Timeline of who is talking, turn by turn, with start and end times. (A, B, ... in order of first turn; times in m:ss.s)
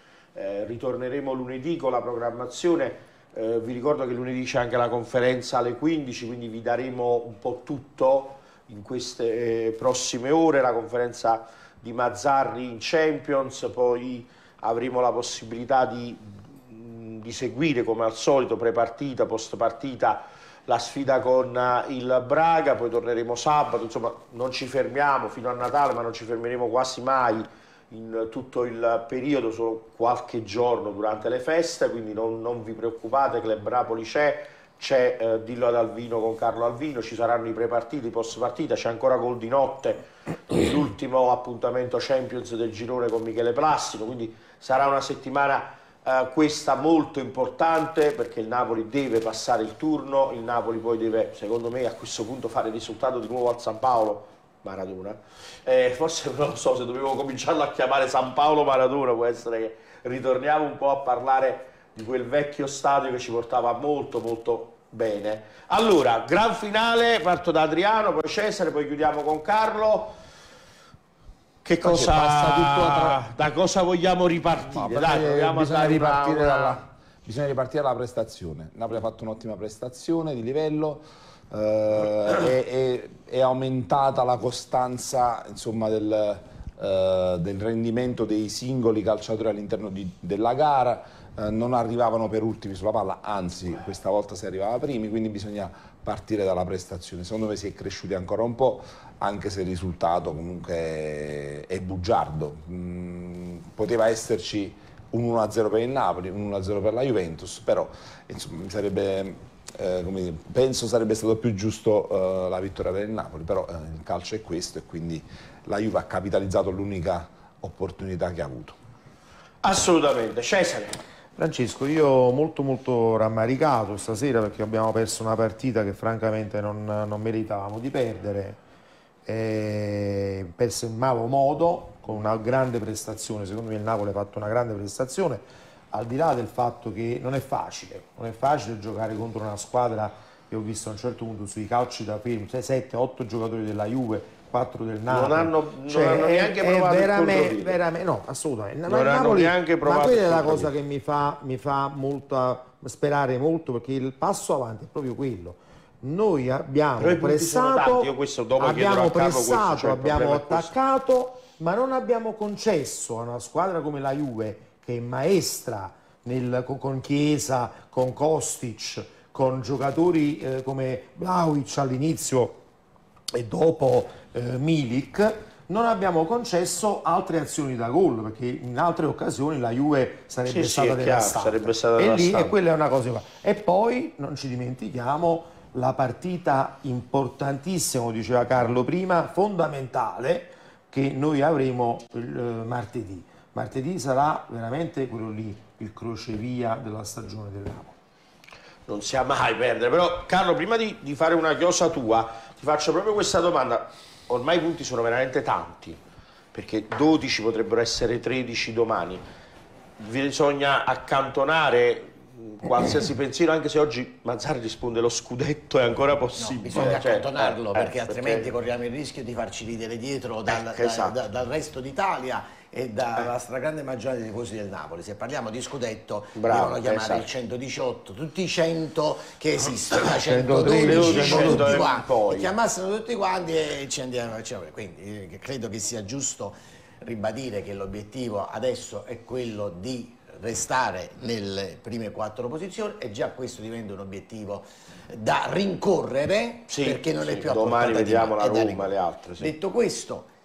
0:00.3-1:10.1 A
1:11.6-1:16.8 A
1:11.8-1:13.2 B
1:14.7-1:58.8 B
1:59.6-2:01.0 A
2:01.4-2:08.6 C
2:09.2-2:52.6 C
2:25.1-2:27.8 A
2:28.9-2:30.7 A
2:37.0-2:40.7 A
2:53.3-3:17.9 C
3:00.5-3:02.5 A
3:18.9-3:26.0 A
3:26.5-3:29.2 A
3:30.0-3:38.5 A
3:36.4-4:10.3 D
3:40.5-3:41.2 A
3:46.3-3:47.3 A
3:50.3-3:51.8 C
3:50.7-3:52.5 A
4:06.7-4:09.5 A